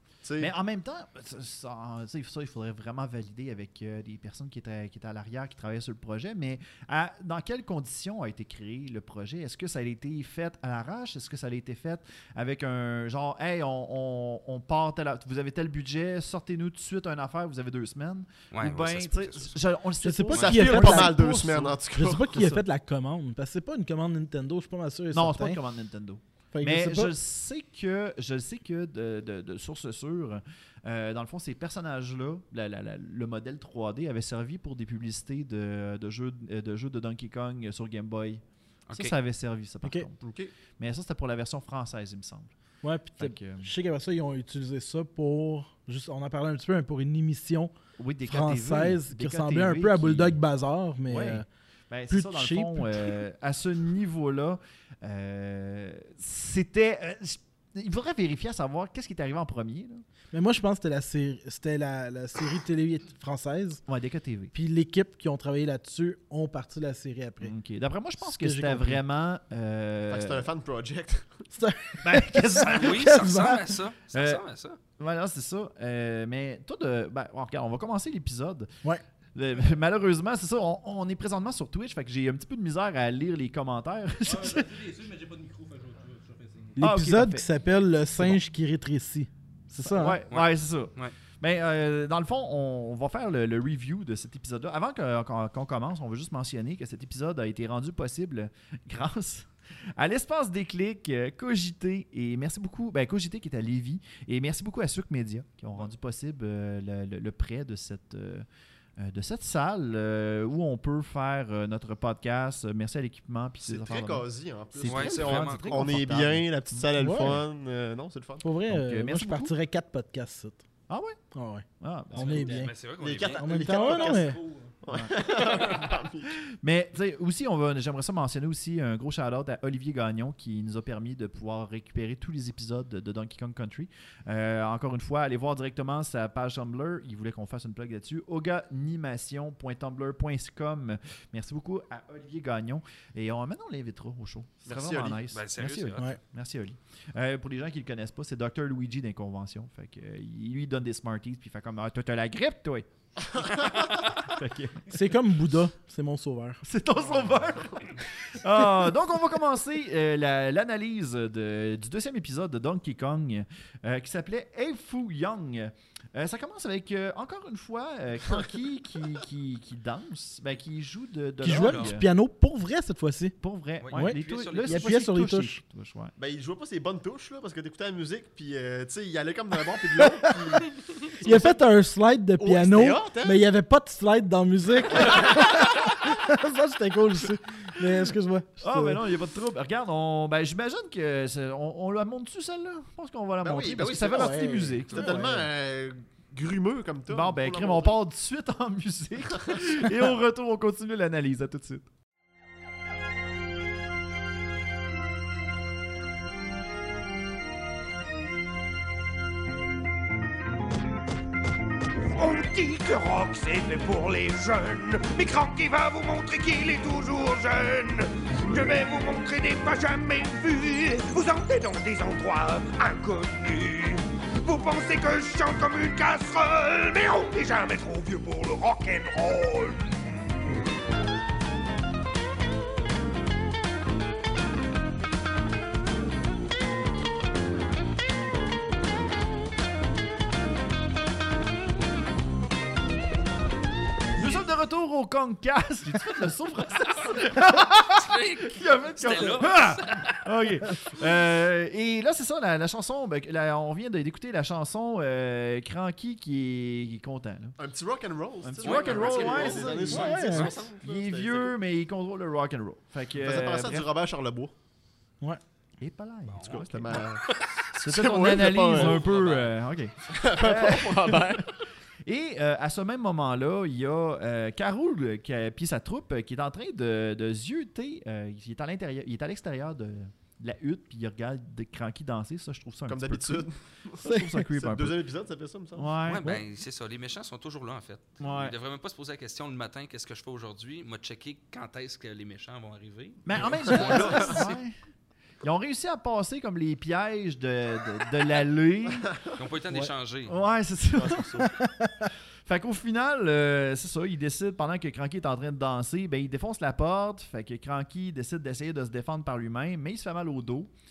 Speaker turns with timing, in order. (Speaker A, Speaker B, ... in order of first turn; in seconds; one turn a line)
Speaker A: 0.2-0.5
Speaker B: 0.4-22.6
Speaker C: 18.5-19.6
Speaker D: 20.0-21.2
Speaker A: 20.3-22.3
Speaker D: 21.9-25.6
Speaker B: 25.1-42.5
Speaker D: 26.5-27.1
Speaker C: 38.9-39.1
Speaker A: 40.2-40.5
Speaker D: 42.8-47.7
Speaker B: 43.2-43.7
Speaker B: 48.0-50.4
Speaker D: 48.2-51.5
Speaker B: 51.1-60.0
Speaker D: 52.1-53.1
Speaker D: 60.3-63.8
Speaker B: 63.9-64.5
Speaker D: 64.5-67.5
Speaker B: 67.4-70.5
Speaker D: 68.2-69.0
Speaker A: 70.1-71.5
Speaker D: 71.5-73.6
Speaker B: 72.0-73.2
Speaker C: 72.7-74.8
Speaker B: 74.1-74.4
Speaker B: 75.0-78.7
Speaker B: 79.3-84.8
Speaker E: 84.2-86.8
Speaker D: 86.8-90.2
Speaker B: 86.8-87.4
Speaker B: 89.7-108.5
Speaker C: 90.3-91.1
Speaker B: 109.0-117.5
Speaker A: 113.6-118.5
Speaker C: 114.8-116.0
Speaker D: 117.0-117.3
Speaker D: 118.4-120.6
Speaker B: 118.7-119.5
Speaker B: 120.9-121.2
Speaker D: 121.3-122.7
Speaker B: 121.8-122.5
Speaker E: 122.2-122.7
Speaker C: 122.3-123.4
Speaker A: 123.0-126.3
Speaker E: 123.2-124.8
Speaker D: 123.4-124.4
Speaker B: 124.9-125.1
Speaker C: 125.5-125.8
Speaker B: 126.5-152.9
Speaker A: 144.6-145.3
Speaker C: 145.3-146.0
Speaker A: 153.4-154.1
Speaker C: 153.5-154.1
Speaker B: 154.2-154.9
Speaker D: 154.9-156.6
Speaker B: 156.6-172.1
Speaker A: 157.2-157.9
Speaker D: 171.4-173.3
Speaker C: 171.6-171.9
Speaker B: 173.4-176.1
Speaker C: 173.8-174.9
Speaker D: 173.9-175.6
Speaker A: 176.2-181.6
Speaker D: 180.0-180.6
Speaker D: 181.2-189.0
Speaker A: 182.4-183.4
Speaker A: 184.9-185.5
Speaker B: 188.6-195.4
Speaker A: 193.4-198.0
Speaker D: 194.1-195.4
Speaker B: 197.1-201.9
Speaker F: 212.1-230.0
Speaker B: 244.2-257.6
Speaker C: 247.0-250.3
Speaker A: 257.6-261.5
Speaker B: 258.4-263.9
Speaker C: 258.6-260.6
Speaker D: 259.7-260.5
Speaker A: 263.1-264.5
Speaker B: 265.8-267.1
Speaker C: 266.3-267.5
Speaker A: 266.4-269.1
Speaker B: 267.8-271.5
Speaker C: 268.9-269.5
Speaker A: 270.1-271.6
Speaker B: 272.0-285.0
Speaker A: 282.9-285.9
Speaker D: 284.0-284.4
Speaker B: 285.8-286.4
Speaker C: 286.1-294.6
Speaker B: 288.2-288.5
Speaker B: 293.2-294.8
Speaker B: 295.4-299.1
Speaker A: 299.1-299.3
Speaker C: 299.4-300.4
Speaker B: 300.2-301.4
Speaker A: 300.9-301.6
Speaker D: 301.6-302.1
Speaker B: 302.4-310.7